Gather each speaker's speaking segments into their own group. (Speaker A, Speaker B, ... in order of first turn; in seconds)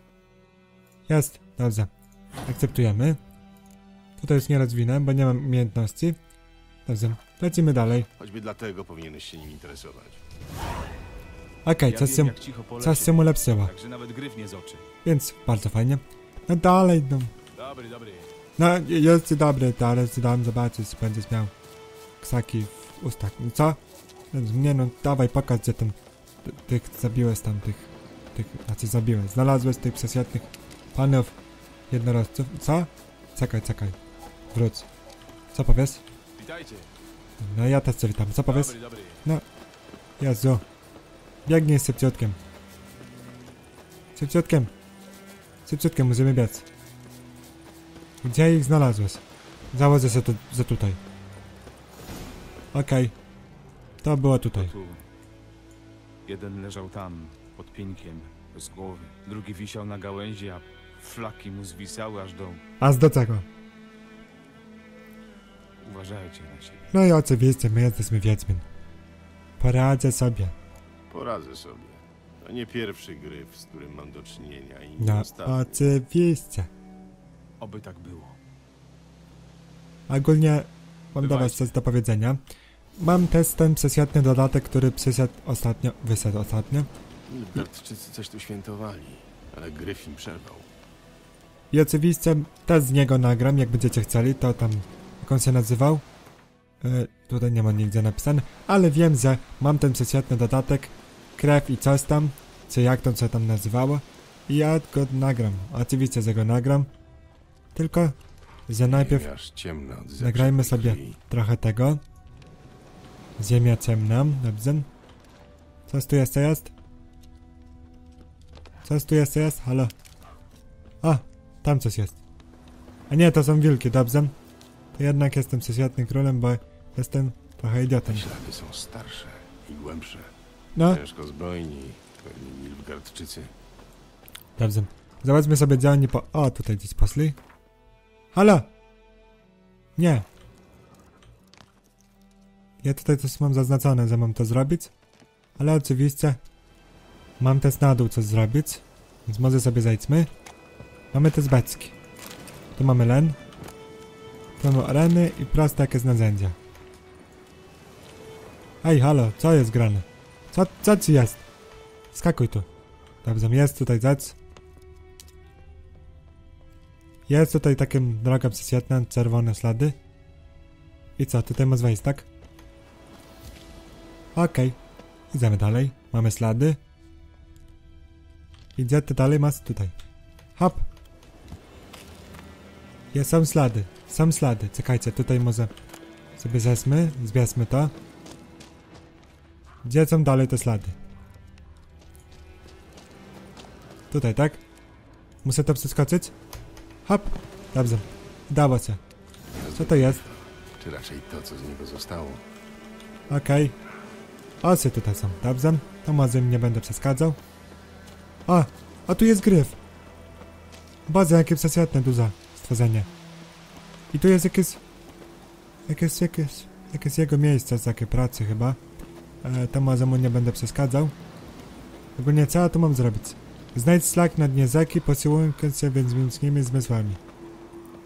Speaker A: 1.1-1.9, 2.5-3.2, 4.2-6.2, 6.9-8.1, 11.7-13.7, 15.0-17.3, 18.6-21.5, 22.2-23.8, 24.3-31.4, 31.9-34.0, 34.5-34.9, 35.5-36.0, 37.4-39.5, 40.2-40.6, 41.5-42.4, 44.2-44.7, 45.7-46.6, 48.2-51.0, 52.7-53.1, 54.0-54.7, 62.8-63.5, 66.9-68.6, 69.6-70.5, 75.0-76.7, 80.1-82.4, 83.0-86.9, 91.7-96.1, 96.8-106.9, 107.8-108.2, 108.7-109.3, 110.2-112.0, 113.4-114.9, 115.9-116.7, 118.8-119.9, 121.0-122.2, 123.1-124.3, 125.0-128.3, 130.8-131.0, 134.6-137.4, 138.3-138.7, 140.0-140.3, 142.8-144.9, 145.6-146.4, 147.4-150.3, 151.1-152.0, 152.8-153.4, 154.6-156.6, 158.8-161.4, 162.1-162.7, 163.2-164.4, 167.3-170.0, 171.2-172.3, 174.4-174.8, 175.3-176.8, 178.8-179.9, 180.6-180.9, 183.1-185.7, 186.4-187.9, 189.8-191.0, 194.1-194.6, 195.4-196.3, 197.1-199.0, 199.8-200.2, 203.3-203.8, 204.6-207.4, 208.5-209.8, 211.1-213.1, 214.1-214.8, 215.9-218.8, 219.4-221.1, 222.2-227.2
Speaker B: 8.2-10.2, 71.1-75.9, 87.3-90.7, 108.8-111.2, 128.1-133.5, 199.5-202.4
Speaker C: 11.9-14.9, 17.6-18.3, 36.4-36.9, 38.5-39.2, 54.5-55.0, 56.3-62.6, 65.8-66.9, 77.6-78.4, 81.2-81.7